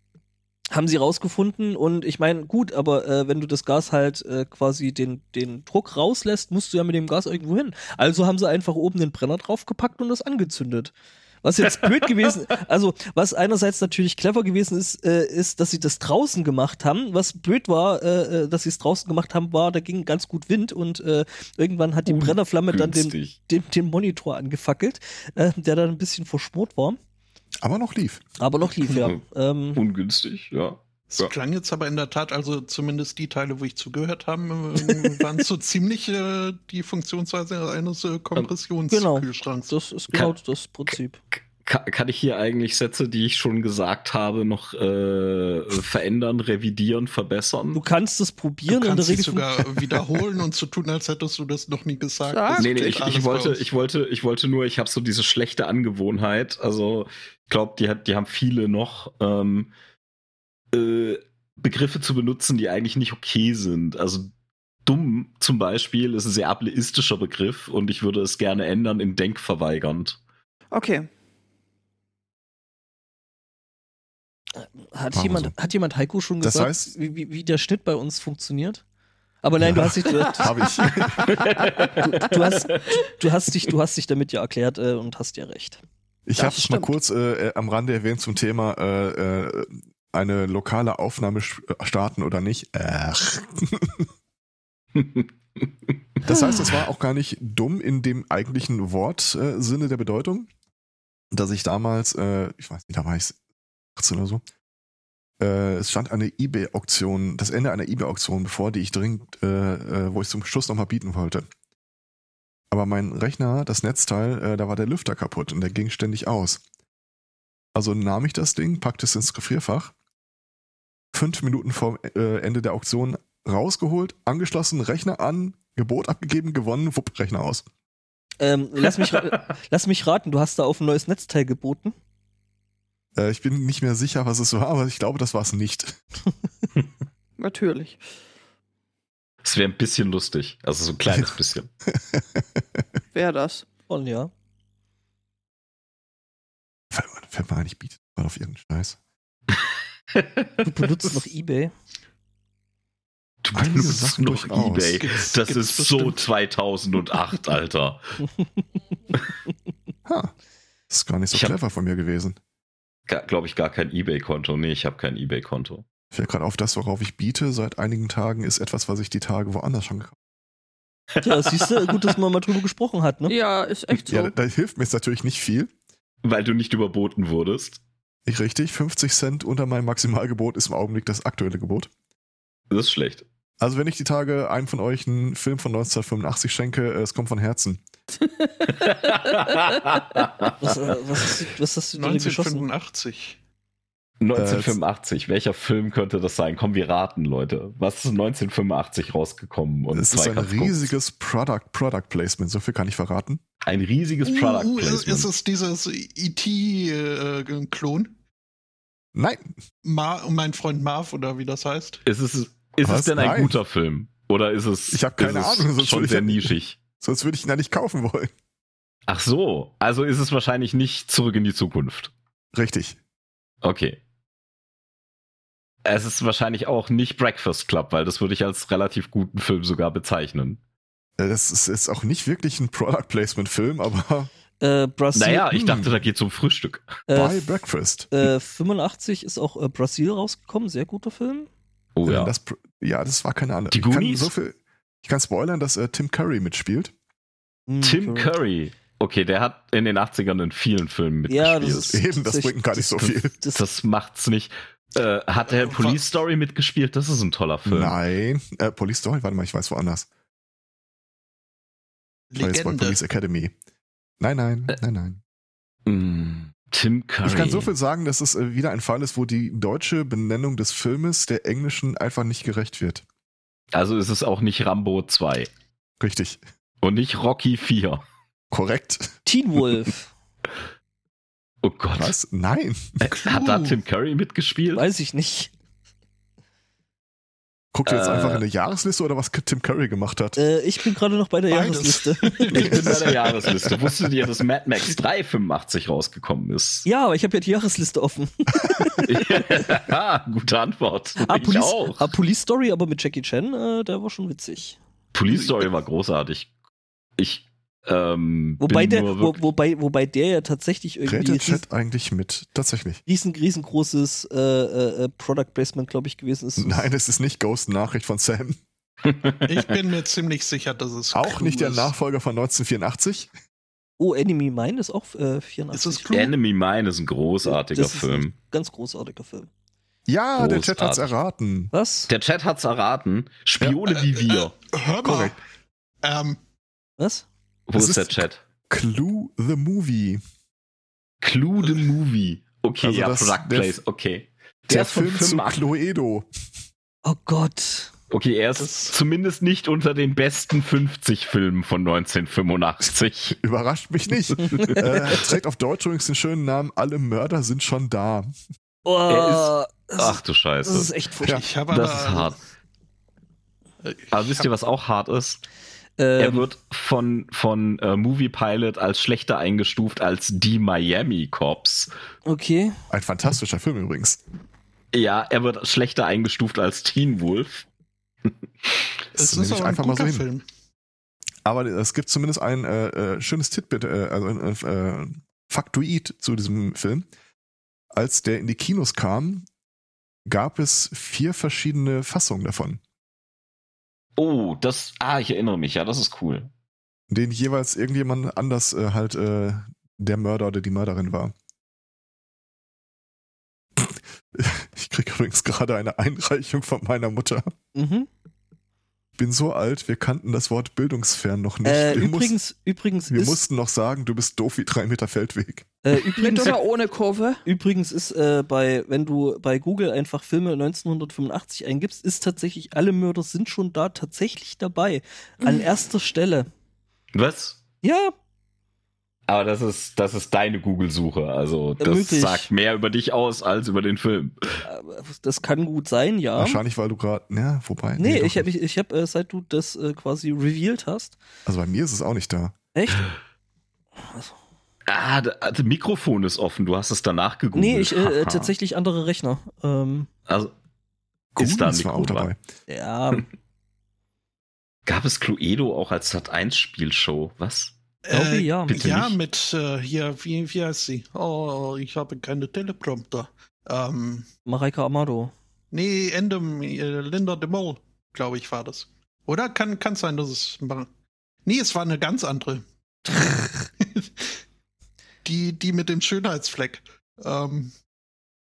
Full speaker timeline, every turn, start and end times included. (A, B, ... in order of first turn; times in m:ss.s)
0:00.7-0:27.0 A
0:11.8-0:12.3 B
0:22.0-0:23.4 B
0:27.6-0:28.2 C
0:28.4-0:29.8 A
0:29.7-0:31.3 B
0:31.1-0:39.7 D
0:38.9-0:41.2 A
0:40.9-0:47.8 B
0:47.7-0:49.7 A
0:48.7-0:53.6 D
0:52.2-0:52.9 E
0:52.6-0:59.7 B
1:00.7-1:04.3 B
1:04.8-1:10.2 B
1:10.7-1:11.1 E
1:14.6-1:18.8 A
1:15.1-1:15.5 C
1:16.4-1:16.9 C
1:19.4-1:20.6 A
1:19.6-1:21.3 C
1:21.3-1:22.8 B
1:21.8-1:25.8 A
1:26.3-1:34.1 C
1:26.4-1:26.9 E
1:35.0-1:35.6 B
1:36.2-1:40.5 C
1:41.3-1:43.4 C
1:44.0-1:44.4 C
1:45.4-1:51.4 C
1:52.7-1:56.6 C
1:57.7-1:59.9 C
2:01.1-2:07.6 C
2:08.4-2:11.9 A
2:13.2-2:16.0 C
2:17.4-2:18.0 E
2:19.4-2:21.7 B
2:22.1-2:22.4 C
2:23.1-2:23.7 E
2:23.9-2:24.3 A
2:26.9-2:29.0 C
2:29.5-2:31.2 B
2:30.6-2:31.7 A
2:33.4-2:38.2 B
2:33.5-2:35.0 C
2:35.0-2:36.3 D
2:40.0-2:40.3 C
2:40.9-2:42.4 C
2:43.1-2:45.8 B
2:46.1-2:50.2 C
2:51.1-2:52.2 B
2:51.2-2:53.3 A
2:53.3-2:54.3 E
2:54.1-2:55.7 C
2:56.2-2:57.8 B
2:58.2-3:01.9 C
3:02.7-3:03.2 B
3:03.6-3:07.8 C
3:08.7-3:10.9 B
3:10.6-3:12.6 A
3:12.0-3:13.4 D
3:14.2-3:20.9 B
3:14.3-3:14.8 C
3:19.9-3:23.4 C
3:23.6-3:25.3 B
3:24.2-3:28.1 D
3:29.1-3:29.5 C
3:29.8-3:32.0 D
3:32.0-3:36.8 B
3:32.8-3:33.6 C
3:34.9-3:38.3 C
3:39.1-3:42.1 B
3:42.5-3:43.0 C
3:43.6-3:44.0 B
3:45.8-3:50.6 B
3:51.2-3:54.3 C
3:54.6-3:55.5 A
3:55.1-3:57.0 B
3:55.5-3:56.0 C
3:57.1-3:57.5 A
3:57.1-3:58.1 C
3:58.1-4:01.5 A
4:02.0-4:02.3 B
4:02.0-4:06.9 C
4:03.7-4:04.3 B
4:07.7-4:08.3 A
4:07.8-4:12.0 B
4:11.3-4:13.6 A
4:11.9-4:13.3 C
4:13.5-4:18.0 B
4:15.4-4:16.1 D
4:17.6-4:20.1 C
4:22.3-4:23.0 D
4:22.4-4:23.5 C
4:24.2-4:25.2 C
4:25.8-4:27.7 B
4:27.2-4:33.0 C
4:33.7-4:35.5 B
4:36.0-4:36.4 C
4:36.8-4:38.0 B
4:38.5-4:39.2 C
4:39.2-4:40.1 A
4:41.6-4:42.1 B
4:41.9-4:43.0 C
4:43.0-4:44.8 B
4:43.1-4:43.8 D
4:44.7-4:45.5 A
4:47.7-4:50.4 C
4:47.8-4:48.4 B
4:50.4-4:52.8 A
4:51.5-4:53.6 D
4:52.5-4:56.8 B
4:56.8-4:59.6 A
4:59.1-5:02.0 B
5:01.2-5:04.8 A
5:05.1-5:06.5 B
5:05.3-5:05.7 D
5:07.2-5:09.4 B
5:08.6-5:11.6 A
5:11.0-5:13.0 C
5:13.0-5:16.9 A
5:16.6-5:18.6 C
5:19.0-5:19.8 B
5:19.4-5:21.9 D
5:21.1-5:23.3 C
5:24.0-5:26.1 A
5:25.7-5:26.3 D
5:26.1-5:28.3 B
5:27.5-5:29.5 A
5:30.1-5:31.7 C
5:30.4-5:31.1 B
5:31.7-5:32.1 A
5:32.1-5:34.5 B
5:33.8-5:35.4 D
5:35.0-5:35.3 C
5:36.0-5:36.4 D
5:37.0-5:37.3 A
5:37.7-5:38.4 B
5:37.8-5:40.2 C
5:41.2-5:45.6 B
5:42.8-5:43.8 C
5:44.7-5:46.3 C
5:47.0-5:47.9 A
5:48.1-5:53.4 B
5:48.6-5:48.9 D
5:53.4-5:58.3 C
5:54.5-5:54.8 B
5:54.6-5:54.8 A
5:58.8-6:01.4 A
5:59.1-6:00.9 B
6:01.3-6:02.4 D
6:01.7-6:02.4 B
6:03.8-6:04.5 D
6:04.1-6:05.4 B
6:06.0-6:06.4 A
6:06.2-6:11.9 B
6:12.2-6:12.8 A
6:12.9-6:14.2 C
6:14.9-6:17.6 B
6:18.2-6:18.9 B
6:19.1-6:20.4 D
6:19.2-6:20.2 C
6:21.4-6:27.1 C
6:27.9-6:29.4 C
6:30.3-6:32.8 C
6:34.2-6:36.5 B
6:37.1-6:41.3 C
6:43.8-6:47.5 C
6:47.7-6:48.1 A
6:49.2-6:52.4 C
6:51.6-6:53.4 A
6:53.1-6:55.7 C
6:55.8-6:56.6 A
6:56.1-6:57.4 E
6:57.4-7:06.5 A
7:07.1-7:07.6 B
7:07.8-7:08.1 A
7:09.3-7:14.6 B
7:11.8-7:12.5 A
7:14.6-7:16.6 A
7:16.4-7:18.5 C
7:18.0-7:21.2 A
7:21.4-7:22.5 C
7:22.7-7:23.1 A
7:24.0-7:24.3 A
7:24.9-7:28.5 B
7:27.5-7:30.1 A
7:30.3-7:30.5 B
7:31.3-7:32.4 C
7:31.4-7:32.3 B
7:32.7-7:33.2 A
7:34.8-7:37.7 B
7:38.0-7:44.3 D
7:38.1-7:38.9 A
7:38.7-7:39.2 B
7:44.5-7:45.3 A
7:45.7-7:50.9 D
7:51.4-7:53.3 D
7:53.8-7:54.3 D
7:55.2-7:57.7 D